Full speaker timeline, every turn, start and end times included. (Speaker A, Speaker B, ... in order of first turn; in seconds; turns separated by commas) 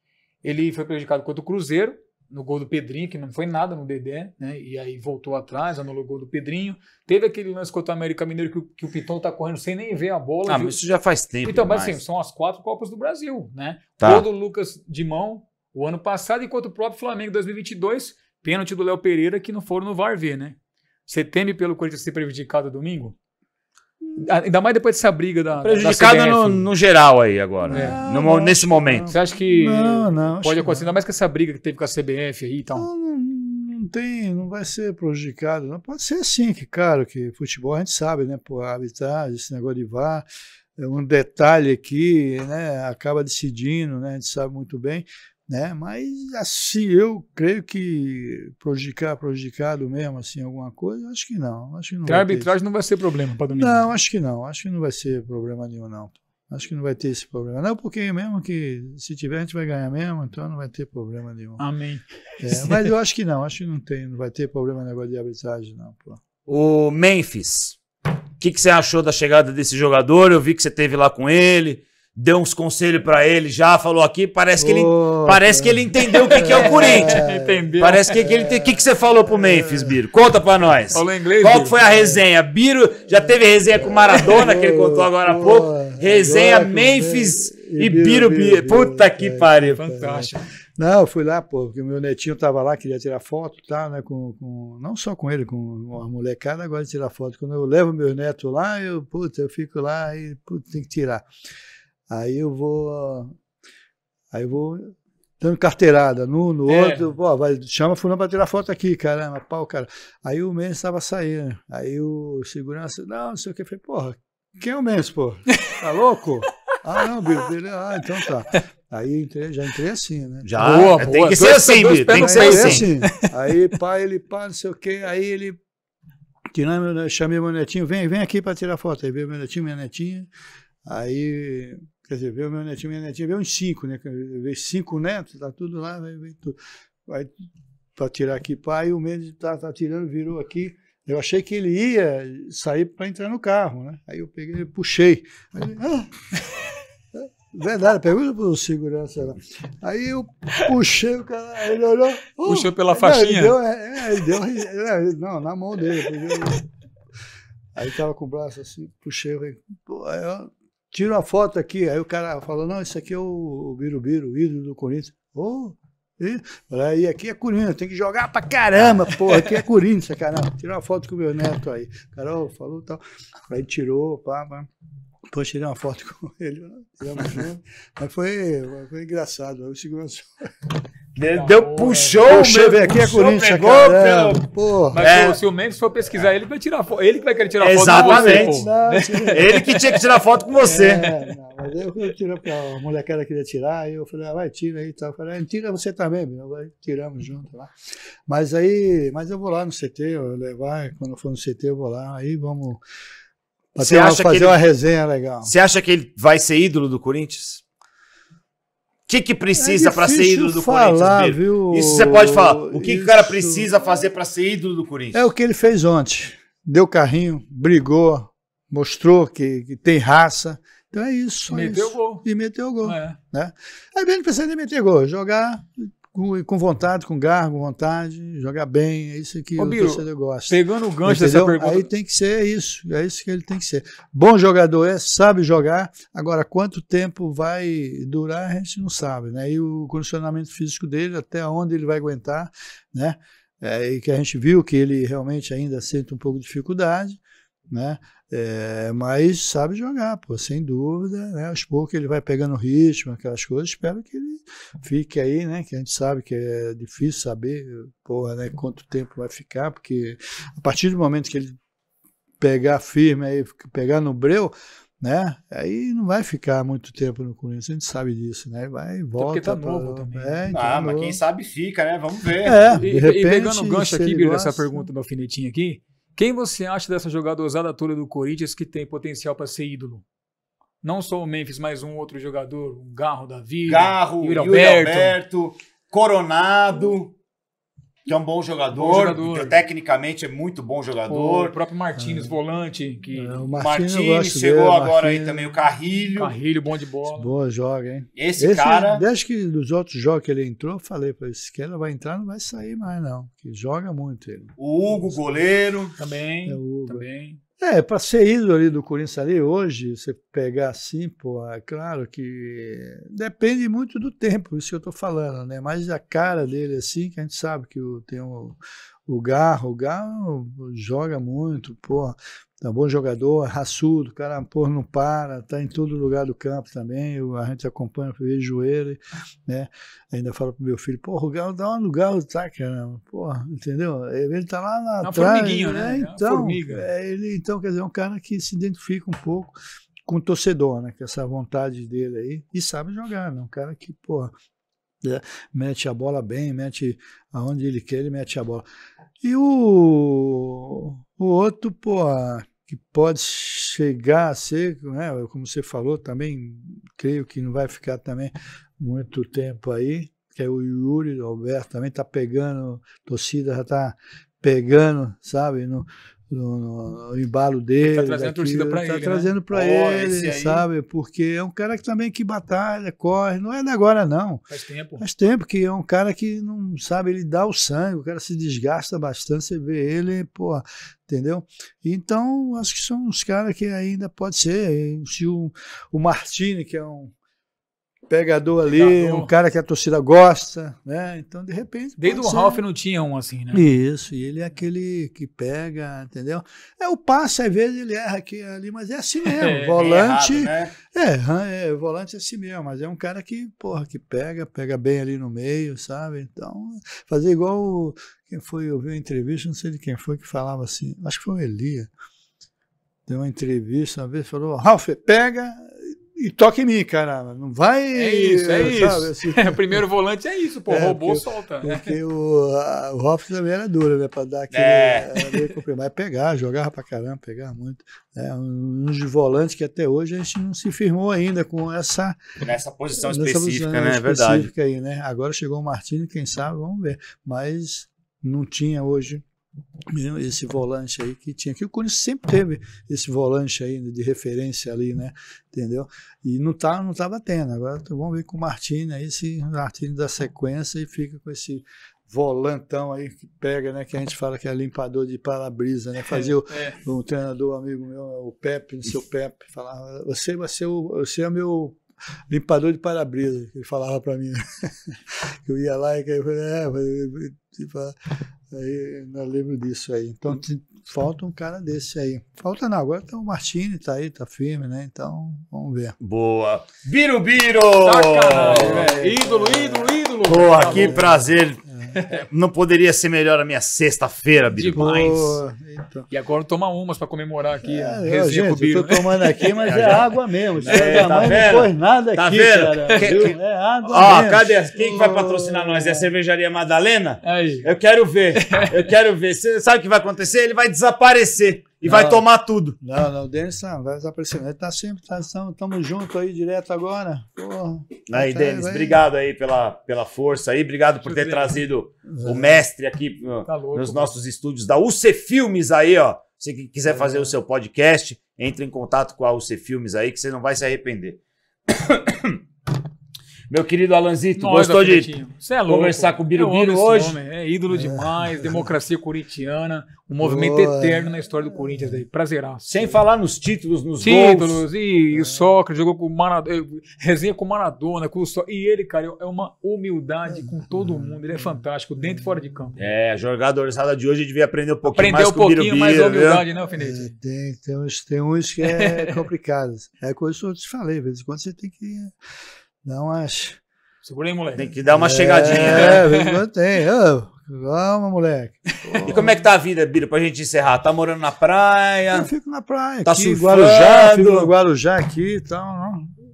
Speaker A: 0.4-10.8, Speaker B: 10.4-12.0, Speaker A: 11.4-20.6, Speaker B: 14.0-14.2, Speaker A: 21.1-23.1, Speaker A: 24.2-26.7, Speaker B: 25.6-29.1, Speaker C: 27.7-30.9, Speaker A: 27.7-28.0, Speaker A: 29.1-32.9, Speaker C: 32.7-40.2, Speaker C: 40.8-52.5, Speaker A: 52.0-53.9, Speaker C: 53.5-61.6, Speaker A: 61.6-62.9, Speaker C: 62.4-66.2, Speaker B: 66.5-67.8, Speaker B: 68.4-77.2, Speaker C: 74.6-77.6, Speaker A: 76.3-78.1, Speaker B: 77.8-89.8, Speaker C: 78.2-80.0, Speaker A: 80.9-81.8, Speaker C: 81.8-82.2, Speaker C: 83.7-101.2, Speaker A: 89.6-90.5, Speaker C: 102.1-103.3, Speaker C: 104.3-120.8, Speaker A: 106.7-107.1, Speaker B: 120.4-122.9, Speaker A: 120.6-123.3, Speaker C: 122.1-125.6, Speaker C: 126.5-130.3, Speaker C: 130.8-137.3, Speaker C: 137.9-146.1, Speaker C: 147.2-156.6, Speaker A: 152.4-153.6, Speaker C: 157.7-174.7, Speaker B: 168.8-169.1, Speaker C: 175.3-180.3, Speaker B: 181.2-184.5, Speaker A: 181.3-182.2, Speaker C: 182.2-185.0, Speaker A: 184.9-189.8, Speaker B: 185.0-185.4, Speaker B: 187.6-188.6, Speaker C: 187.9-189.5, Speaker B: 189.3-191.1, Speaker C: 190.6-197.7, Speaker A: 190.9-191.3, Speaker C: 198.3-202.8, Speaker C: 203.7-205.5, Speaker B: 203.8-204.6, Speaker B: 205.4-207.6, Speaker B: 209.1-215.2, Speaker C: 209.5-213.7, Speaker C: 215.1-247.2, Speaker A: 221.5-222.2, Speaker A: 222.8-223.2, Speaker A: 229.6-231.9, Speaker C: 247.7-261.5, Speaker C: 262.4-271.2, Speaker A: 269.1-270.4, Speaker B: 270.5-272.6, Speaker C: 272.4-274.9, Speaker A: 272.7-280.0, Speaker A: 280.8-285.2, Speaker B: 283.7-287.1, Speaker B: 288.1-291.5, Speaker A: 288.7-289.6, Speaker A: 291.1-293.4, Speaker C: 292.0-292.4, Speaker C: 293.1-295.5, Speaker B: 293.6-296.3, Speaker A: 296.1-297.3, Speaker C: 297.0-304.5, Speaker B: 298.1-299.0, Speaker B: 304.6-305.9, Speaker A: 306.0-307.4, Speaker C: 306.4-307.1, Speaker C: 307.6-339.6, Speaker A: 335.0-336.9, Speaker C: 340.1-344.3, Speaker C: 345.0-348.6, Speaker C: 349.2-374.4, Speaker A: 367.8-369.3, Speaker B: 369.5-370.6, Speaker A: 374.5-375.0, Speaker C: 375.0-387.1, Speaker C: 388.1-392.6, Speaker A: 388.7-389.3, Speaker A: 392.0-393.6, Speaker C: 393.5-411.9, Speaker A: 399.2-399.8, Speaker B: 399.8-400.7, Speaker C: 413.1-419.8, Speaker A: 417.9-421.9, Speaker C: 420.7-432.2, Speaker B: 424.5-425.1, Speaker A: 425.2-425.5, Speaker B: 432.4-434.5, Speaker C: 433.0-439.2, Speaker C: 439.9-461.8, Speaker A: 456.1-456.8, Speaker C: 462.3-467.9, Speaker C: 468.5-475.9, Speaker B: 476.0-478.9, Speaker A: 477.8-481.0, Speaker C: 478.6-479.9, Speaker B: 480.2-484.9, Speaker C: 480.5-482.0, Speaker A: 481.9-482.2, Speaker A: 484.5-485.4, Speaker C: 484.7-486.1, Speaker A: 486.1-489.9, Speaker C: 487.6-496.1, Speaker B: 489.6-490.1, Speaker B: 490.6-493.4, Speaker A: 490.7-491.2, Speaker A: 492.9-493.2, Speaker B: 493.9-502.8, Speaker A: 493.9-494.2, Speaker A: 497.2-497.7, Speaker A: 498.3-498.9, Speaker C: 501.8-502.2, Speaker C: 502.8-509.0, Speaker B: 508.1-522.4, Speaker A: 511.0-511.6, Speaker C: 512.1-512.6, Speaker A: 513.4-514.2, Speaker C: 516.9-517.3, Speaker B: 523.5-525.1, Speaker A: 524.4-532.7, Speaker B: 525.6-527.2, Speaker C: 527.7-528.7, Speaker C: 530.2-532.0, Speaker B: 532.6-534.6, Speaker A: 534.0-542.8, Speaker C: 535.1-535.5, Speaker C: 540.3-542.4, Speaker B: 542.8-546.4, Speaker A: 544.9-547.1, Speaker C: 546.7-552.1, Speaker A: 548.6-549.2, Speaker C: 552.8-553.6, Speaker A: 554.0-554.7, Speaker B: 554.5-556.0, Speaker C: 554.9-559.5, Speaker A: 555.5-556.4, Speaker A: 558.8-559.1, Speaker B: 559.1-562.3, Speaker C: 562.1-566.1, Speaker B: 563.0-564.5